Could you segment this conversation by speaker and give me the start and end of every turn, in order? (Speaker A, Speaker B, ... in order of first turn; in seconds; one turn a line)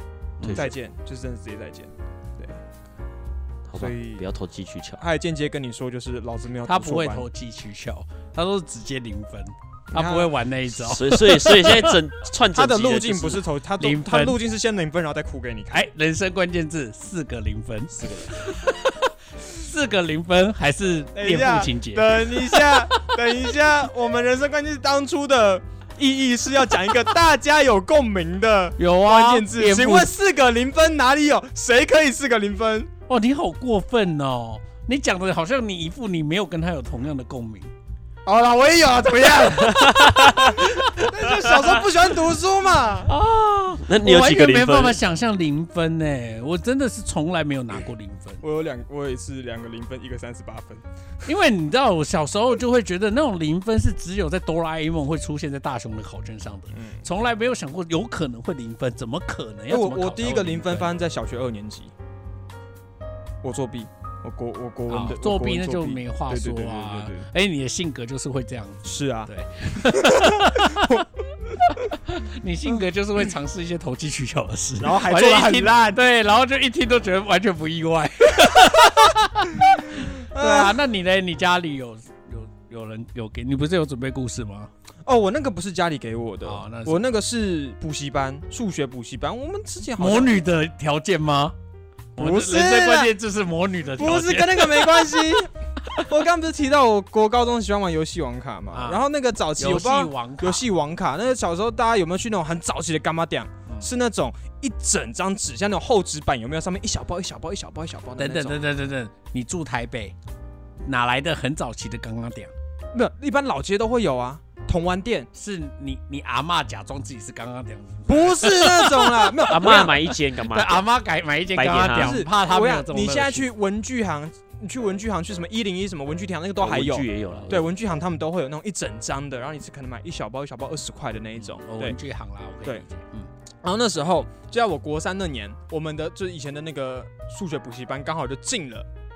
Speaker A: 0.4-0.7
Speaker B: 0.4-0.7
Speaker C: 0.5-2.6
Speaker B: 3.7-5.0
Speaker C: 3.8-4.2
Speaker C: 5.0-7.3
Speaker A: 6.7-11.9
Speaker C: 9.9-10.4
Speaker B: 10.7-13.4
Speaker C: 12.5-15.9
Speaker A: 13.8-14.4
Speaker A: 15.7-23.0
Speaker B: 17.9-18.3
Speaker C: 21.1-32.9
Speaker A: 28.8-30.1
Speaker A: 33.1-37.7
Speaker C: 38.2-43.1
Speaker B: 39.6-40.7
Speaker A: 43.1-48.4
Speaker B: 43.8-45.0
Speaker C: 48.4-50.8
Speaker A: 51.2-60.9
Speaker C: 56.7-57.0
Speaker C: 59.7-61.9
Speaker C: 63.4-67.2
Speaker A: 64.9-71.0
Speaker C: 68.8-71.6
Speaker A: 71.9-84.7
Speaker C: 74.8-76.0
Speaker C: 80.3-80.8
Speaker C: 85.0-90.4
Speaker A: 86.4-87.0
Speaker A: 90.0-91.5
Speaker C: 92.2-93.1
Speaker A: 92.2-95.2
Speaker C: 94.0-108.6
Speaker A: 98.7-99.0
Speaker A: 99.6-100.6
Speaker A: 108.2-110.1
Speaker A: 110.8-112.5
Speaker C: 112.9-115.3
Speaker A: 115.3-123.5
Speaker C: 118.1-120.0
Speaker B: 119.5-120.9
Speaker B: 121.5-122.2
Speaker C: 122.0-132.0
Speaker B: 126.6-127.6
Speaker A: 127.3-127.6
Speaker A: 131.4-133.3
Speaker C: 133.6-138.9